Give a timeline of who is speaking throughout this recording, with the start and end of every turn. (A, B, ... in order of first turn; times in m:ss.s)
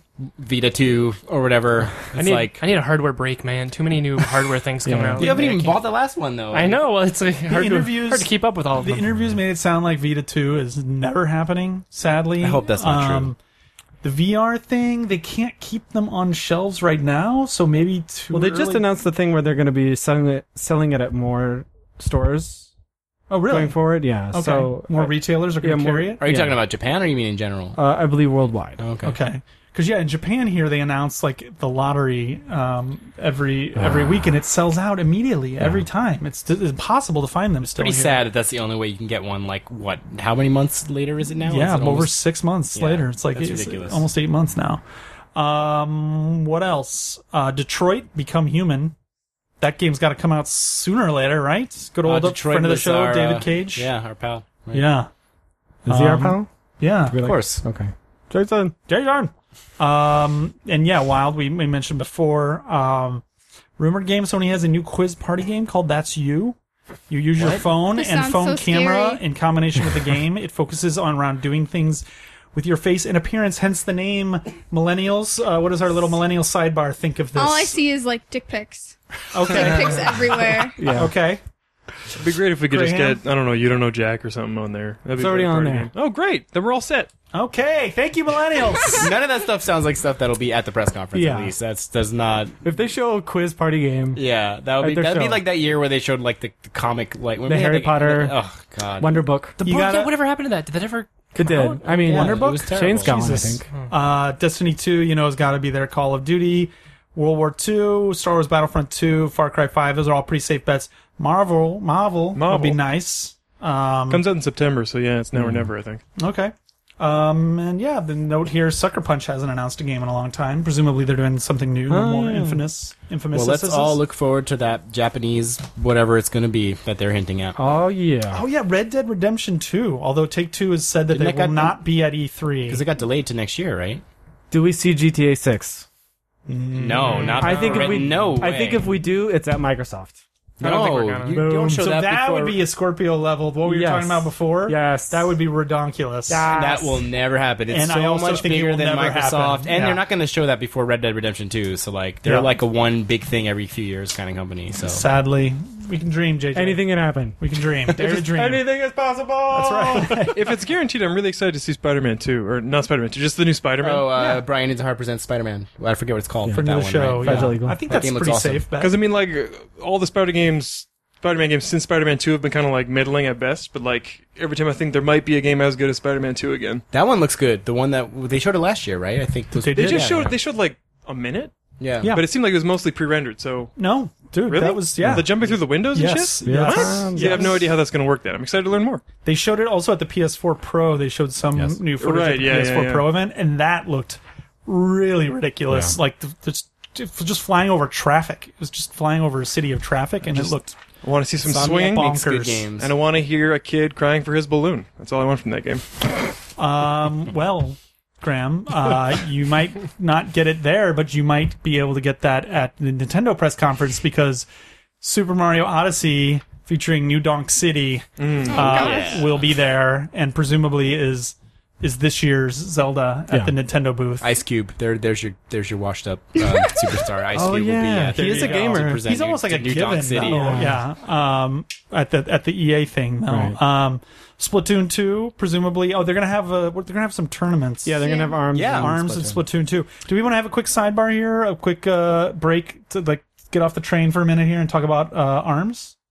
0:00.4-0:02.6 A
0:02.1-0:05.9 B
0:04.8-0:05.4 C
0:05.2-0:06.8 A
0:06.5-0:09.1 B
0:07.5-0:13.4 D
0:12.4-0:13.3 A
0:14.0-0:18.9 D
0:18.3-0:22.7 C
0:23.3-0:26.2 D
0:23.5-0:26.6 C
0:26.2-0:27.8 A
0:27.8-0:28.8 C
0:28.8-0:29.2 A
0:29.0-0:38.2 D
0:33.8-0:34.2 C
0:37.7-0:42.2 A
0:41.4-0:44.8 D
0:42.7-0:44.0 A
0:45.3-0:48.9 D
0:49.6-0:53.9 D
0:52.0-0:54.9 A
0:54.7-0:55.1 D
0:55.8-0:57.2 D
0:55.8-0:56.5 C
0:57.1-0:58.7 C
0:57.2-0:57.6 A
0:58.9-1:03.2 D
1:03.8-1:06.6 D
1:07.1-1:17.8 D
1:07.7-1:09.2 E
1:17.4-1:20.8 E
1:19.3-1:21.4 D
1:20.8-1:21.1 C
1:22.2-1:27.1 F
1:22.6-1:23.2 D
1:25.2-1:25.9 C
1:27.3-1:29.1 D
1:29.0-1:32.6 A
1:31.1-1:31.6 C
1:32.6-1:34.2 C
1:34.1-1:39.9 A
1:34.8-1:35.4 C
1:37.4-1:38.4 C
1:39.0-1:39.6 C
1:39.6-1:42.2 B
1:39.6-1:40.1 D
1:41.4-1:43.6 C
1:41.9-1:43.1 A
1:42.1-1:54.2 D
1:52.3-1:52.8 F
1:54.1-1:56.0 F
1:55.3-1:55.7 C
1:56.2-2:04.0 D
2:01.9-2:02.6 C
2:03.3-2:07.6 A
2:07.6-2:08.4 C
2:08.3-2:12.8 D
2:11.1-2:11.8 A
2:12.7-2:14.0 A
2:14.5-2:15.8 C
2:16.5-2:17.9 D
2:16.7-2:18.8 A
2:17.4-2:20.2 C
2:17.5-2:17.9 B
2:20.6-2:22.6 A
2:20.6-2:21.4 B
2:21.3-2:21.8 C
2:21.6-2:26.5 D
2:23.6-2:25.3 C
2:26.3-2:27.0 C
2:26.5-2:35.0 A
2:27.7-2:30.0 D
2:32.2-2:32.5 D
2:34.8-2:36.8 D
2:36.5-2:37.4 C
2:37.4-2:38.6 D
2:37.9-2:40.2 C
2:39.5-2:40.4 D
2:40.3-2:44.1 F
2:43.8-2:48.6 A
2:46.4-2:47.9 C
2:46.5-2:49.0 D
2:48.8-2:56.8 F
2:56.9-3:00.3 A
2:59.5-3:00.3 D
2:59.7-3:03.7 F
3:01.8-3:02.1 A
3:02.0-3:02.3 D
3:03.8-3:07.5 D
3:04.4-3:09.0 F
3:06.4-3:07.7 C
3:09.2-3:20.7 D
3:12.0-3:13.2 F
3:15.7-3:16.0 C
3:21.0-3:22.2 F
3:21.4-3:22.9 A
3:21.5-3:22.6 D
3:22.8-3:25.8 F
3:26.6-3:34.4 D
3:35.0-3:44.3 D
3:38.2-3:39.0 F
3:38.5-3:39.2 E
3:38.6-3:39.4 A
3:43.3-3:43.5 C
3:44.2-3:50.7 A
3:47.3-3:49.0 C
3:48.1-4:05.9 D
3:50.2-3:50.8 C
3:53.3-3:53.6 C
3:57.8-3:59.4 C
3:58.0-3:58.4 E
3:58.5-3:58.9 A